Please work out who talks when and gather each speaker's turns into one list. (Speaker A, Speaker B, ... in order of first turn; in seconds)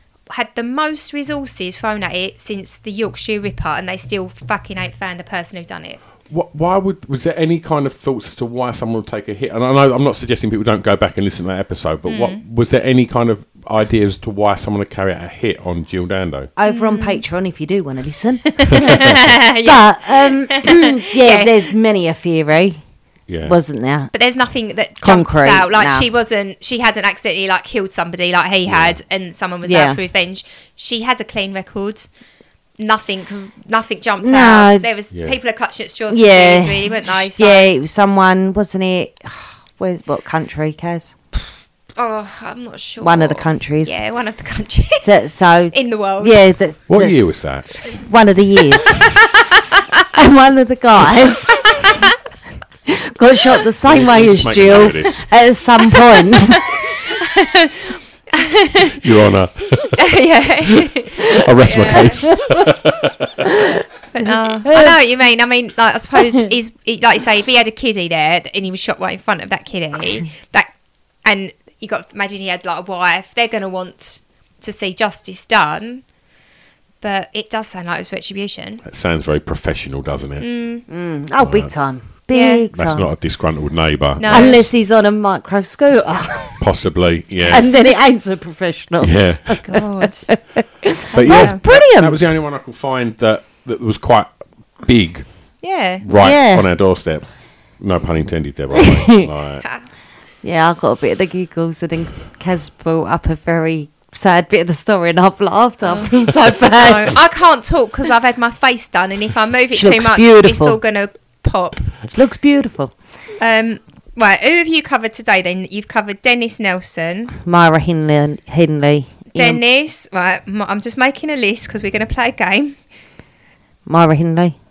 Speaker A: 0.3-6.0, 12.1-12.4, 16.7-17.2, 18.6-21.5, 24.1-32.1, 32.8-37.7, 41.9-45.1, 45.7-46.4, 48.9-49.8, 57.2-59.0, 60.0-62.3, 64.1-70.7, 71.2-76.0, 77.0-78.8, 80.4-80.8, 82.3-82.6, 84.2-84.7, 89.6-90.2, 91.1-91.6, 95.6-96.0, 105.9-106.2, 106.7-111.9, 113.4-117.3, 119.3-122.8
Speaker B: 6.3-16.5, 23.3-23.6, 28.7-29.0, 46.9-48.0, 53.9-55.3, 59.0-60.1, 60.7-63.5, 78.8-80.5, 81.4-81.7, 82.7-84.7, 86.6-87.7, 89.0-89.6, 91.1-95.2, 96.0-97.3, 97.8-99.6
Speaker C: 16.6-22.8, 23.4-24.1, 25.0-26.1, 29.6-30.0, 34.2-34.9, 36.1-41.1, 43.0-44.0, 45.0-47.1, 47.9-49.1, 50.1-51.6, 52.9-56.6, 61.8-62.7, 64.6-65.0, 80.9-83.0, 84.3-86.6, 87.5-92.2, 96.2-96.7, 98.8-99.2, 100.4-107.2, 109.7-110.8, 112.1-112.9, 117.4-119.6, 123.8-124.5